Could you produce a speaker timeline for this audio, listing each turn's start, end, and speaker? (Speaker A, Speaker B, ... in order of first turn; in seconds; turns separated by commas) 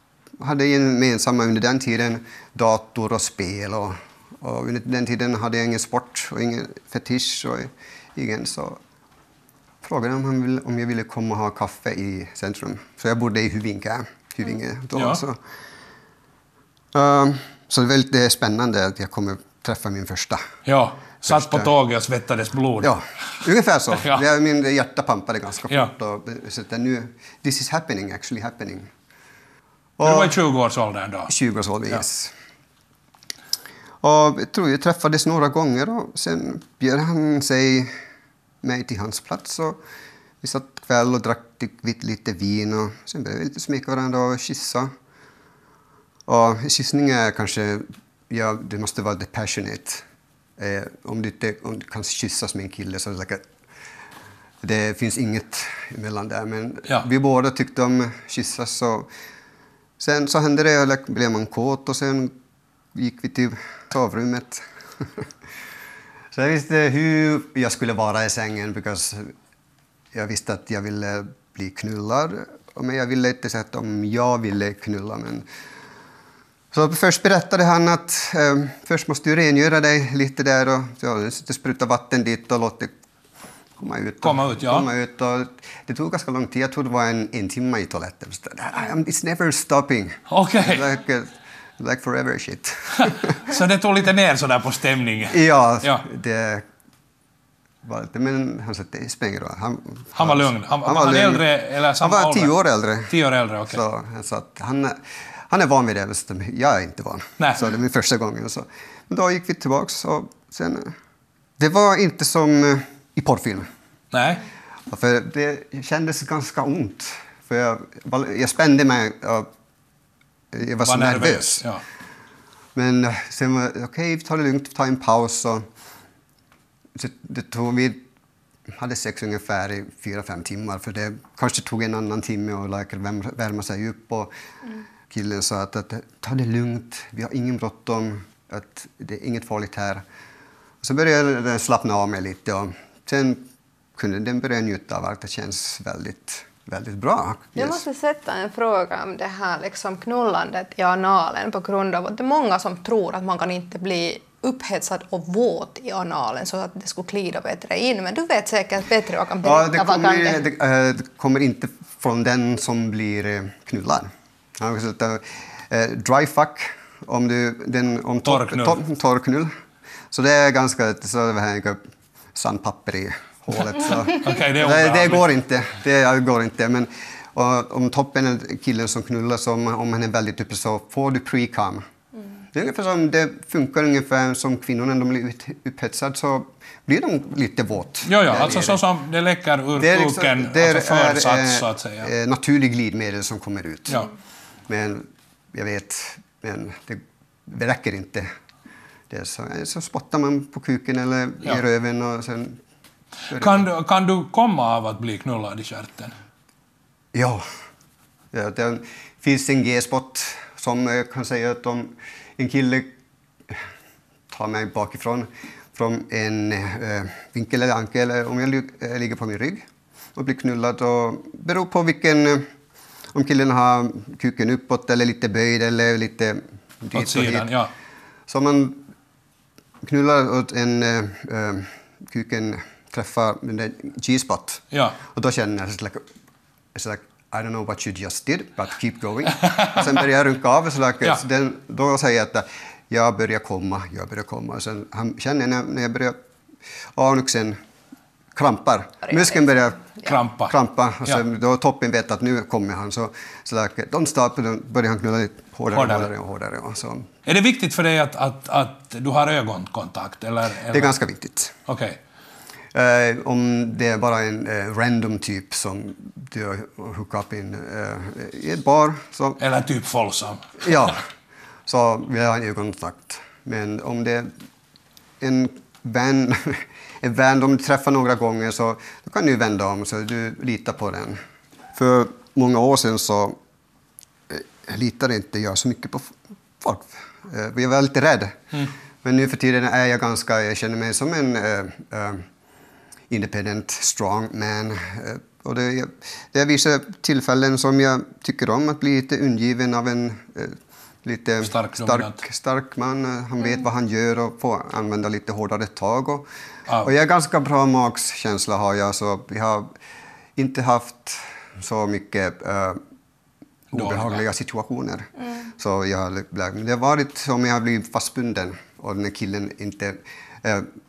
Speaker A: 0.4-8.8, Speaker A: 9.8-15.4, Speaker B: 14.9-15.2, Speaker A: 16.9-20.4, Speaker B: 20.6-22.9, Speaker A: 21.2-21.7, Speaker A: 22.8-28.9, Speaker B: 23.9-24.2, Speaker A: 30.0-30.4, Speaker B: 30.0-31.3, Speaker A: 31.3-32.3, Speaker A: 34.0-37.9, Speaker A: 38.6-39.8, Speaker A: 40.4-44.9, Speaker A: 46.3-50.0, Speaker A: 50.6-53.5, Speaker A: 54.6-59.1, Speaker A: 60.0-62.3, Speaker A: 62.9-65.2, Speaker A: 66.3-69.3, Speaker A: 70.1-75.4, Speaker A: 76.7-82.9, Speaker A: 83.8-93.4, Speaker B: 84.2-84.9, Speaker B: 90.3-90.9, Speaker B: 93.0-96.0, Speaker A: 95.3-96.6, Speaker A: 97.8-101.5, Speaker B: 100.1-102.5, Speaker A: 102.0-103.1, Speaker B: 103.1-103.8, Speaker A: 103.7-110.9, Speaker B: 107.4-107.7, Speaker A: 111.6-113.7, Speaker B: 114.1-114.4, Speaker A: 114.9-119.5, Speaker A: 120.5-121.6, Speaker B: 120.8-121.8, Speaker A: 122.7-125.6, Speaker A: 126.9-128.0, Speaker A: 128.7-134.3, Speaker A: 135.1-140.0, Speaker A: 140.8-143.4, Speaker A: 143.9-147.8, Speaker C: 147.6-160.4, Speaker A: 159.4-169.5, Speaker B: 168.2-168.8, Speaker A: 170.1-171.8, Speaker A: 172.3-181.8, Speaker B: 174.0-175.3, Speaker A: 182.5-188.8, Speaker B: 188.0-192.1, Speaker A: 189.8-194.0, Speaker A: 194.7-198.3, Speaker A: 199.1-202.6, Speaker A: 203.3-203.7, Speaker B: 203.3-206.1, Speaker A: 207.1-207.4, Speaker A: 208.3-212.9, Speaker A: 214.3-222.4, Speaker A: 223.1-227.5, Speaker B: 226.9-227.7, Speaker A: 228.3-228.8, Speaker A: 229.8-236.0, Speaker B: 234.7-235.0, Speaker A: 236.7-246.2, Speaker B: 239.4-239.8, Speaker A: 246.9-247.6, Speaker A: 248.3-249.9, Speaker B: 250.0-250.5, Speaker A: 250.5-257.1, Speaker B: 255.7-256.1, Speaker B: 257.2-260.9, Speaker A: 260.7-261.5, Speaker B: 261.7-262.0, Speaker A: 262.7-269.4, Speaker B: 269.4-271.0, Speaker A: 270.6-271.0, Speaker A: 271.7-274.3, Speaker A: 275.2-281.2, Speaker A: 281.7-283.4, Speaker A: 284.3-292.2, Speaker A: 293.1-306.2, Speaker B: 301.4-302.2, Speaker A: 306.8-309.7, Speaker A: 310.4-312.8, Speaker B: 313.7-314.2, Speaker A: 313.7-320.7